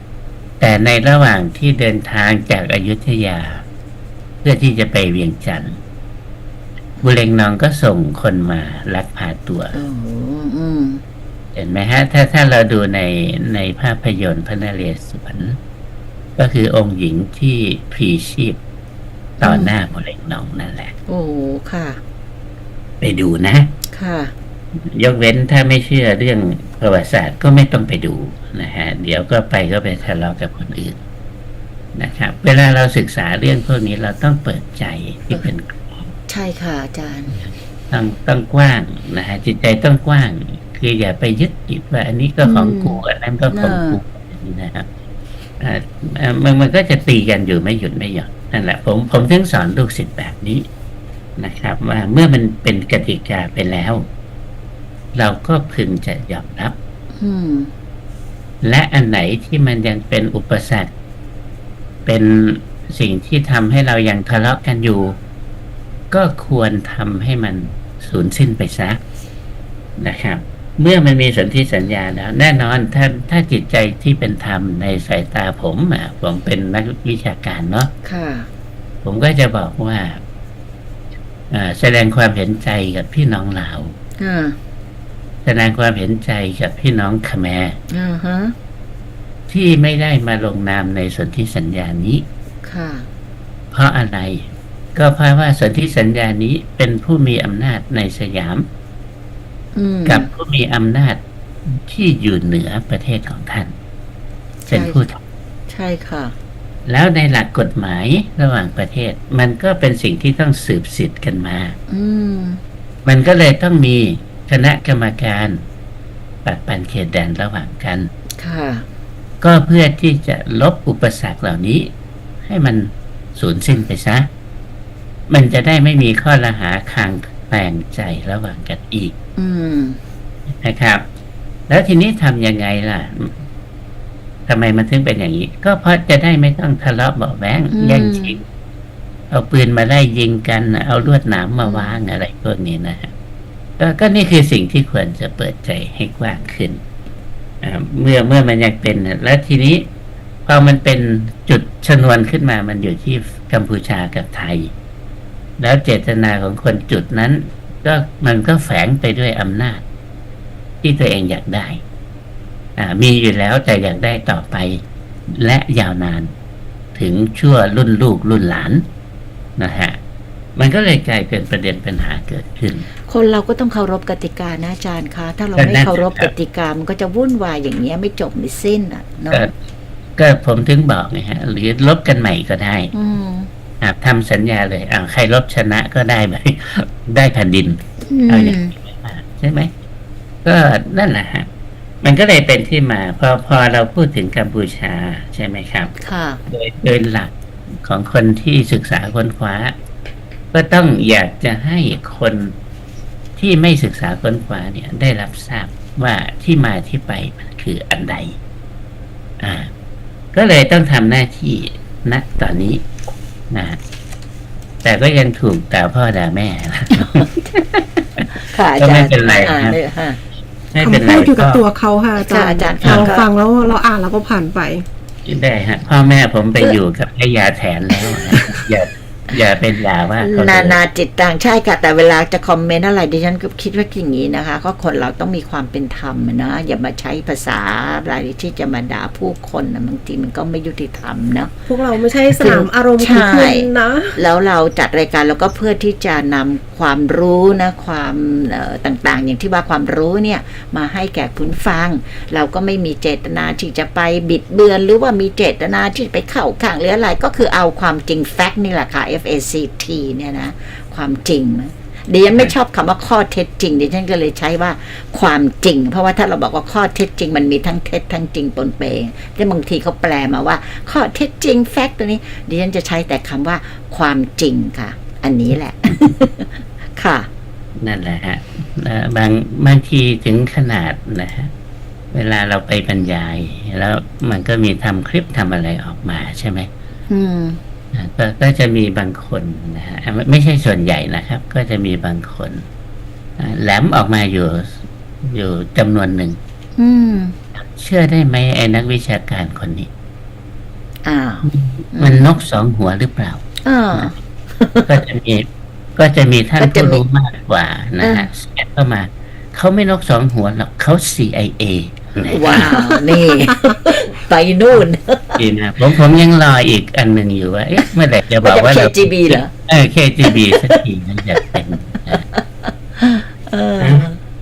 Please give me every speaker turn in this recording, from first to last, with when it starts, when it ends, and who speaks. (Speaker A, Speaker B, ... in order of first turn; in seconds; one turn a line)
Speaker A: 0.6-3.6
Speaker A: 4.4-5.8
Speaker A: 7.0-9.8
Speaker B: 9.7-11.0
Speaker A: 11.5-15.6
Speaker A: 16.4-18.6
Speaker B: 19.4-19.7
Speaker A: 19.4-20.9
Speaker B: 21.1-22.0
Speaker A: 23.0-23.7
Speaker B: 23.9-24.3
Speaker A: 24.8-31.0
Speaker A: 31.9-36.1
Speaker B: 36.3-37.4
Speaker A: 37.4-44.9
Speaker B: 42.4-44.0
Speaker A: 45.6-50.7
Speaker A: 51.4-54.1
Speaker A: 55.1-56.8
Speaker B: 57.2-57.7
Speaker A: 58.6-60.9
Speaker A: 62.1-65.2
Speaker A: 66.1-69.0
Speaker A: 70.0-77.9
Speaker B: 78.0-78.5
Speaker A: 79.0-80.2
Speaker A: 81.5-84.0
Speaker B: 84.2-84.6
Speaker A: 85.4-87.8
Speaker B: 87.9-88.5
Speaker A: 89.5-92.2
Speaker B: 92.6-93.1
Speaker A: 93.7-98.7
Speaker B: 99.8-100.3
Speaker A: 100.1-103.8
Speaker B: 104.7-105.0
Speaker A: 104.7-105.2
Speaker B: 105.7-106.3
Speaker A: 106.9-111.8
Speaker B: 111.9-112.6
Speaker A: 113.0-115.6
Speaker A: 116.4-118.1
Speaker B: 118.4-118.9
Speaker A: 119.4-121.9
Speaker A: 122.4-124.3
Speaker A: 125.3-129.1
Speaker B: 129.4-130.0
Speaker A: 130.5-131.1
Speaker A: 131.7-133.4
Speaker A: 134.5-138.4
Speaker B: 137.7-138.4
Speaker A: 139.3-143.1
Speaker B: 141.6-142.0
Speaker A: 143.8-146.8
Speaker A: 147.6-149.9
Speaker A: 150.5-154.7
Speaker A: 155.6-159.8
Speaker A: 160.8-161.8
Speaker A: 162.8-166.3
Speaker A: 166.9-168.9
Speaker A: 169.6-170.0
Speaker A: 170.6-172.9
Speaker B: 173.1-179.4
Speaker A: 175.6-176.3
Speaker A: 180.2-182.9
Speaker B: 182.9-183.5
Speaker A: 183.8-189.7
Speaker B: 188.1-188.7
Speaker A: 190.4-191.5
Speaker A: 192.0-195.9
Speaker B: 196.0-196.4
Speaker A: 196.5-199.8
Speaker A: 200.5-202.5
Speaker A: 203.4-208.4
Speaker A: 209.4-209.7
Speaker A: 210.3-212.8
Speaker A: 213.5-213.8
Speaker A: 214.8-218.3
Speaker B: 218.4-220.2
Speaker A: 218.8-219.8
Speaker A: 220.7-221.6
Speaker C: 220.8-224.8
Speaker B: 222.2-223.3
Speaker A: 225.3-230.8
Speaker B: 228.2-228.6
Speaker B: 230.2-241.5
Speaker C: 241.7-244.2
Speaker B: 242.4-277.3
Speaker A: 277.8-281.5
Speaker A: 282.1-286.7
Speaker B: 287.1-287.6
Speaker A: 287.9-292.6
Speaker A: 293.4-296.4
Speaker B: 296.8-297.4
Speaker A: 297.6-299.9
Speaker B: 301.1-302.3
Speaker A: 301.4-304.1
Speaker B: 303.6-304.9
Speaker A: 304.9-312.9
Speaker B: 306.6-307.0
Speaker B: 308.0-308.3
Speaker B: 312.3-315.4
Speaker A: 315.4-322.2
Speaker B: 318.4-319.5
Speaker B: 320.3-320.8
Speaker B: 322.3-324.2
Speaker A: 323.8-324.1